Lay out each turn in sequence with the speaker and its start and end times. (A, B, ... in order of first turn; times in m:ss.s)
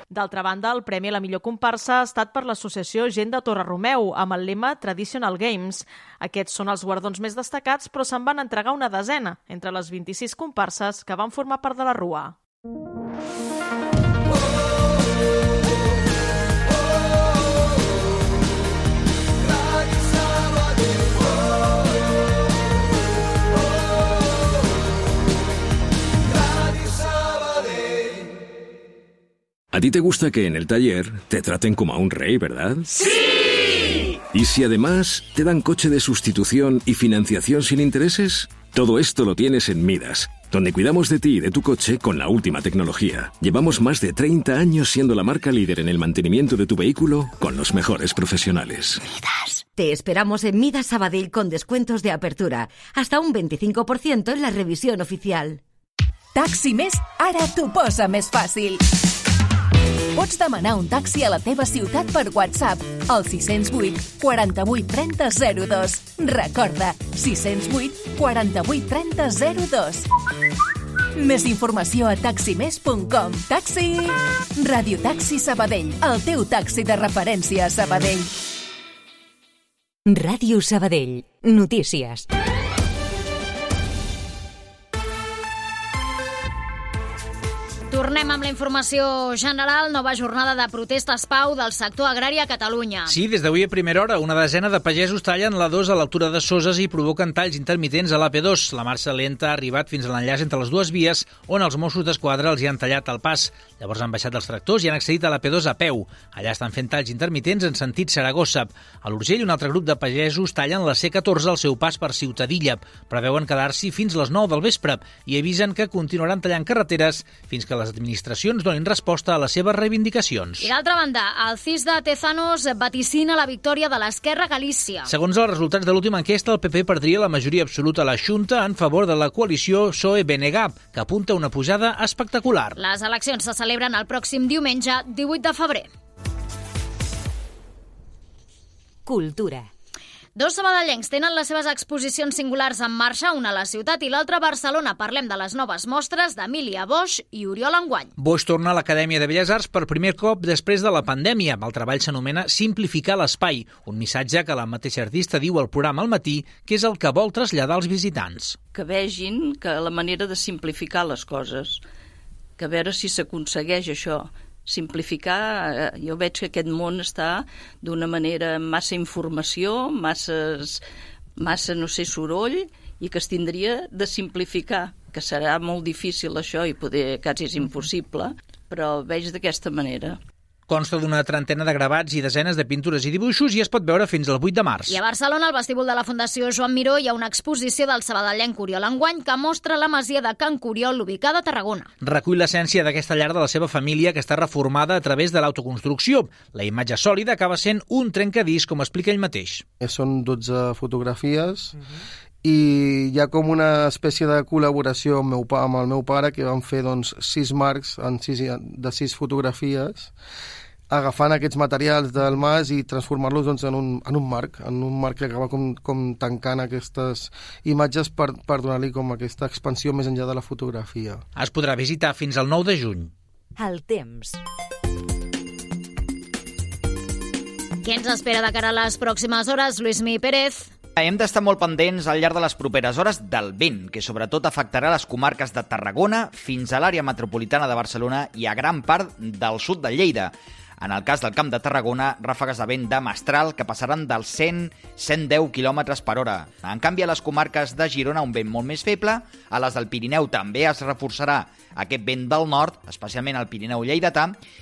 0:00.1-0:12.3 A
0:29.7-0:32.9 B
0:34.3-0:49.0 B
0:49.7-0:55.6 C
0:56.3-0:58.8 D
1:00.1-1:10.1 D
1:11.1-1:18.3 D
1:20.0-1:22.2 E
1:27.9-1:33.2 F
1:33.1-2:00.7 G
2:00.6-2:05.1 F
2:05.0-2:12.8 G
2:12.8-2:15.9 F
2:19.0-2:19.7 E
2:20.4-2:28.1 F
2:28.2-2:38.6 G
2:38.7-2:41.8 H
2:42.6-2:50.8 H
2:51.4-3:00.2 H
3:00.7-3:05.0 G
3:04.9-3:11.9 F
3:12.0-3:19.6 G
3:19.8-3:21.7 I
3:22.4-3:30.1 I
3:30.9-3:41.2 I
3:41.4-3:43.1 G
3:43.6-3:44.4 E
3:47.8-3:50.7 F
3:51.0-4:14.4 J